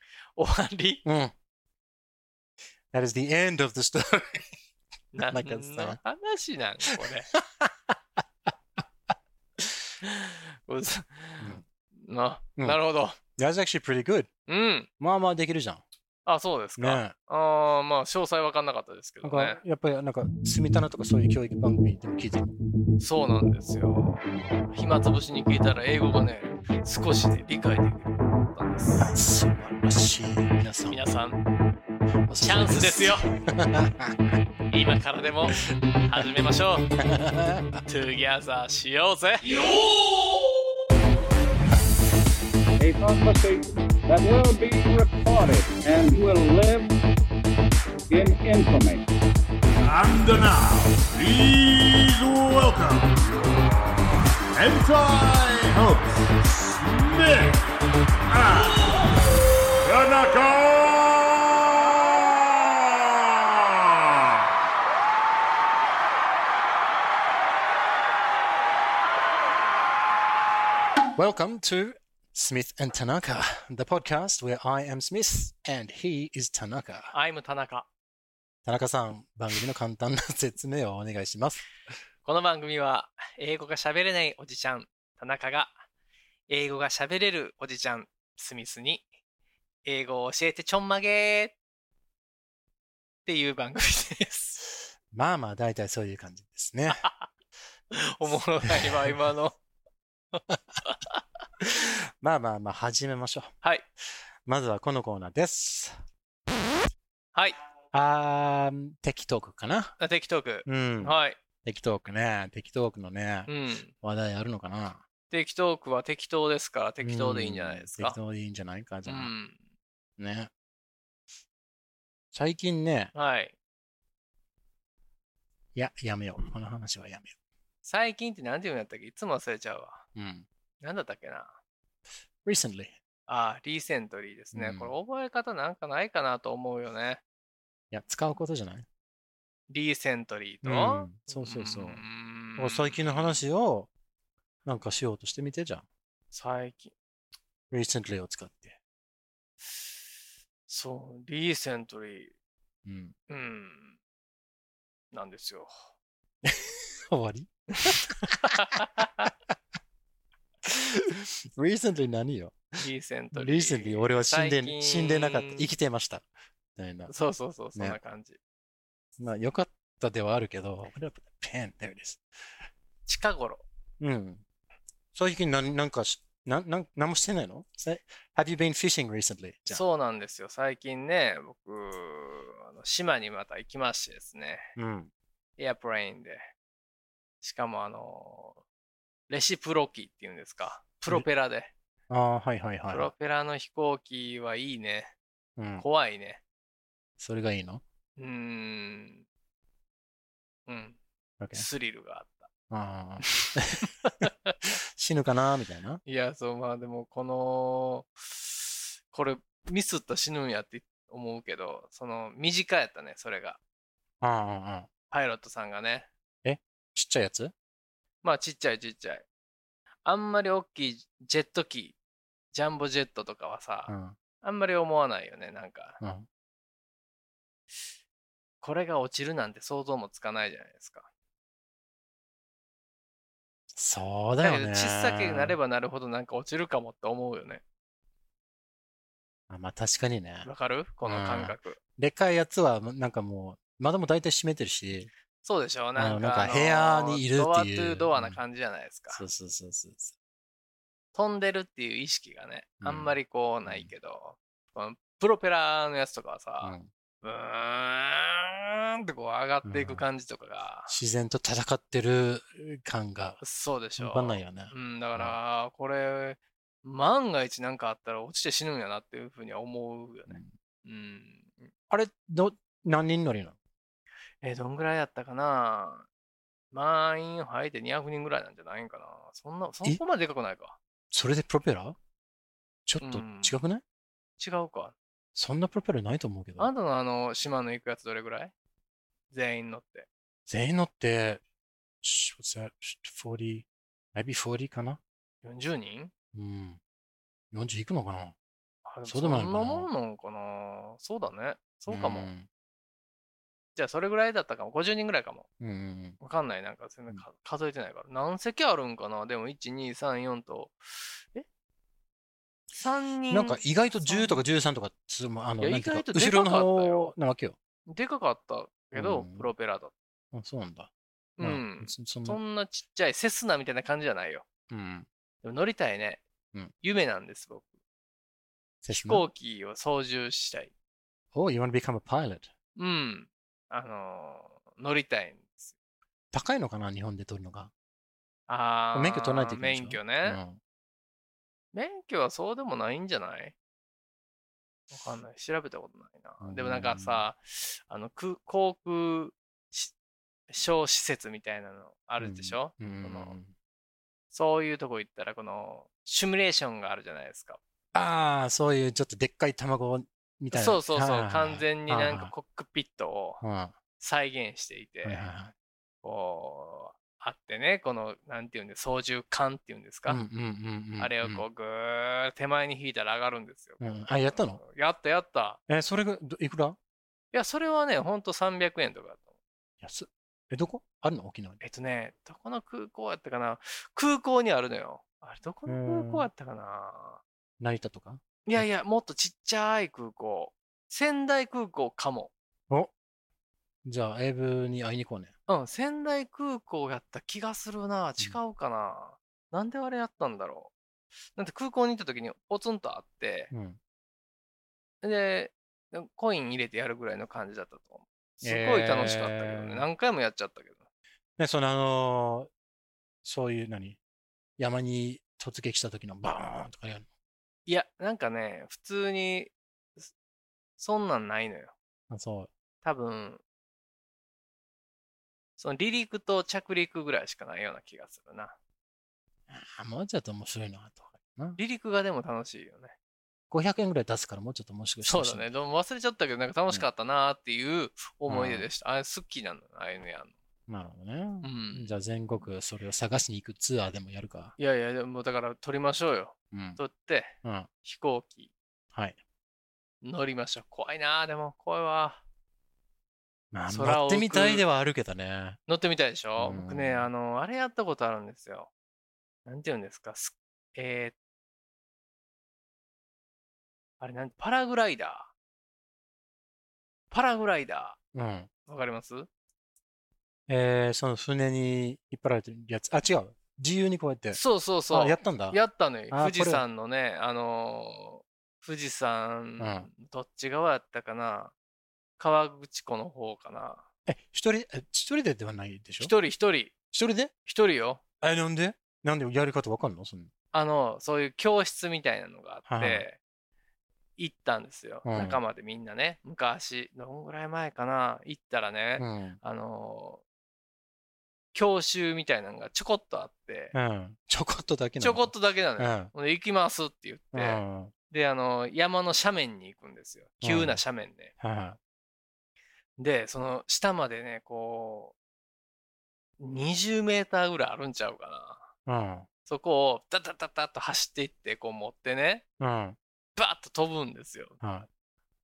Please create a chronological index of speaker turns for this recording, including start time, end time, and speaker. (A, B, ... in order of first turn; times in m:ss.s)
0:00.4-0:01.0 A
0:01.0-0:01.3 B
0:02.9-0:04.5 B
0:05.1-0:07.3 A
0:05.2-0:06.0 B
0:07.0-0:08.0 B
0:09.6-0:13.2 A
0:13.4-0:14.3 B
0:14.5-0:14.9 A
0:15.0-0:15.8 B
0:16.3-0:19.6 A
0:16.8-0:17.1 B
0:19.2-0:22.5 B
0:23.0-0:29.1 A
0:29.0-0:31.0 B
0:30.9-0:31.4 A
0:32.3-0:34.3 B
0:32.4-0:33.3 A
0:34.7-0:36.9 A
0:37.0-0:37.8 B
0:37.9-0:39.7 A
0:42.8-0:46.9 C
0:48.1-0:49.1 C
0:49.8-0:53.9 D
0:54.5-0:57.7 D
0:58.3-0:59.0 D
0:59.8-1:04.3 D
1:11.2-1:17.1 B
1:17.1-1:17.9 A
1:18.6-1:21.6 B
1:22.2-1:25.8 A
1:26.5-1:29.1 A
1:29.8-1:31.6 A
1:33.2-1:34.6 A
1:35.1-1:37.1 B
1:36.9-1:37.3 A
1:37.9-1:39.6 A
1:38.6-1:39.1 B
1:40.4-1:41.2 A
1:41.6-1:43.6 B
1:44.5-1:46.0 B
1:47.3-1:47.6 A
1:47.9-1:50.0 B
1:50.0-1:51.4 A
1:50.6-1:53.5 B
1:53.5-1:53.9 A
1:54.0-1:55.0 B
1:55.3-1:58.2 A
1:57.0-1:59.3 B
1:59.1-1:59.6 A
2:00.2-2:00.5 B
2:02.3-2:03.1 B
2:03.1-2:03.6 A
2:05.8-2:07.3 B
2:07.8-2:10.0 A
2:10.2-2:10.5 B
2:10.8-2:11.6 A
2:12.4-2:12.9 B
2:13.3-2:17.2 A
2:14.5-2:14.9 B
2:17.9-2:18.9 B
2:19.7-2:23.4 A
2:20.6-2:22.0 B
2:22.6-2:23.9 B
2:24.6-2:25.9 B
2:26.3-2:26.9 A
2:27.7-2:28.8 B
2:30.7-2:32.3 A
2:32.8-2:33.2 B
2:33.3-2:34.0 A
2:35.1-2:35.8 A
2:36.4-2:38.6 B
2:37.8-2:39.3 A
2:40.6-2:42.8 B
2:42.8-2:45.7 A
2:43.3-2:46.2 B
2:46.8-2:47.1 B
2:47.1-2:48.4 A
2:49.2-2:52.2 B
2:53.1-2:53.6 A
2:54.0-2:54.4 B
2:55.2-2:59.8 B
2:59.7-3:04.7 A
3:04.8-3:05.1 B
3:05.6-3:06.5 A
3:07.4-3:08.6 A
3:09.3-3:11.7 A
3:12.1-3:13.1 B
3:12.9-3:15.1 A
3:15.6-3:15.8 B
3:15.8-3:16.4 A
3:17.2-3:17.8 B
3:18.2-3:19.2 A
3:20.7-3:21.0 A
3:21.4-3:21.7 B
3:21.5-3:22.5 A
3:22.7-3:26.0 B
3:23.3-3:24.6 A
3:26.1-3:33.6 A
3:34.2-3:34.9 B
3:35.1-3:36.1 A
3:36.4-3:37.5 B
3:38.2-3:39.2 A
3:40.0-3:42.0 A
3:42.5-3:46.0 A
3:43.9-3:44.2 B
3:46.0-3:46.3 B
3:48.6-3:51.1 A
3:53.7-3:55.6 B
3:54.4-3:57.6 A
3:59.5-4:00.5 B
4:00.4-4:01.8 A
4:01.0-4:05.1 B
4:05.4-4:09.2 A
4:06.0-4:08.4 B
4:09.1-4:10.1 B
4:11.1-4:20.9 A
4:12.8-4:13.9 B
4:16.6-4:16.9 B
4:19.6-4:20.0 B
4:20.9-4:23.4 B
4:23.4-4:31.7 A
4:24.0-4:25.4 B
4:31.9-4:33.6 B
4:34.4-4:36.1 A
4:36.7-4:40.8 A
4:41.1-4:42.0 B
4:42.9-4:43.8 B
4:43.0-4:43.6 A
4:44.4-4:45.0 A
4:45.4-4:46.7 B
4:46.6-4:48.5 A
4:49.3-4:50.1 A
4:50.5-4:51.4 B
4:52.0-4:55.0 B
4:55.4-4:56.1 A
4:56.3-4:56.8 B
4:57.5-4:58.4 B
4:58.9-5:02.3 A
4:59.0-4:59.9 B
5:01.9-5:02.5 B
5:03.8-5:05.5 A
5:05.6-5:06.2 B
5:06.2-5:11.5 A
5:12.8-5:14.4 A
5:13.3-5:17.6 B
5:15.6-5:17.1 A
5:17.9-5:19.9 A
5:18.9-5:19.5 B
5:20.3-5:22.4 B
5:21.4-5:24.5 A
5:24.7-5:25.1 B
5:25.4-5:26.2 A
5:26.8-5:27.7 A
5:28.8-5:29.3 B
5:28.9-5:30.7 A
5:31.3-5:32.5 B
5:32.8-5:35.7 A
5:36.3-5:37.7 B
5:38.5-5:40.4 A
5:38.9-5:40.6 B
5:41.7-5:43.6 A
5:44.9-5:49.9 A
5:46.4-5:47.3 B
5:50.5-5:53.4 A
5:52.2-5:53.5 B
5:54.3-5:57.6 A
5:57.9-6:02.3 B
6:00.5-6:03.4 A
6:03.4-6:03.8 B
6:04.0-6:05.2 A
6:05.0-6:05.5 B
6:06.0-6:10.2 A
6:10.1-6:11.4 B
6:11.0-6:15.6 A
6:13.8-6:14.6 B
6:15.7-6:16.8 B
6:17.3-6:19.3 A
6:19.8-6:21.6 B
6:21.6-6:27.2 A
6:25.7-6:26.3 B
6:27.6-6:28.7 B
6:28.5-6:32.3 A
6:33.8-6:35.3 B
6:35.5-6:40.7 A
6:41.4-6:43.5 A
6:43.5-6:43.8 B
6:45.0-6:50.8 A
6:48.4-6:49.9 B
6:51.4-6:52.5 B
6:53.2-6:54.0 B
6:54.6-6:57.1 B
6:57.7-7:00.1 A
7:00.8-7:01.7 A
7:02.1-7:02.5 B
7:02.8-7:03.4 A
7:05.6-7:08.6 A
7:09.5-7:11.6 B
7:11.6-7:13.0 A
7:13.5-7:15.5 B
7:15.0-7:20.3 A
7:18.3-7:18.7 B
7:20.7-7:24.6 B
7:21.4-7:22.4 A
7:24.6-7:28.5 A
7:26.5-7:26.8 B
7:27.4-7:27.7 B
7:30.0-7:32.2 A
7:33.5-7:35.6 B
7:33.7-7:34.6 A
7:35.7-7:38.7 A
7:36.4-7:37.1 B
7:39.5-7:41.2 A
7:44.0-7:45.3 A
7:47.1-7:48.0 A
7:48.1-7:48.5 B
7:48.7-7:49.3 A
7:50.5-7:55.6 B
7:54.3-8:01.5 A
7:56.1-7:56.6 B
7:59.6-7:59.9 B
8:02.2-8:03.9 A
8:04.1-8:06.1 B
8:06.0-8:06.7 A
8:06.9-8:07.3 B
8:07.4-8:08.0 A
8:08.2-8:10.3 B
8:10.5-8:13.2 A
8:12.7-8:13.0 B
8:14.2-8:20.2 A
8:15.0-8:15.4 B
8:19.0-8:19.4 B
8:21.5-8:23.7 A
8:23.7-8:26.1 B
8:25.0-8:31.3 A
8:27.3-8:27.9 B
8:30.4-8:30.8 B
8:31.4-8:31.8 B
8:33.0-8:35.1 A
8:36.4-8:38.7 A
8:38.9-8:39.3 B
8:39.5-8:42.4 A
8:42.6-8:43.0 B
8:43.4-8:44.6 A
8:44.6-8:44.9 B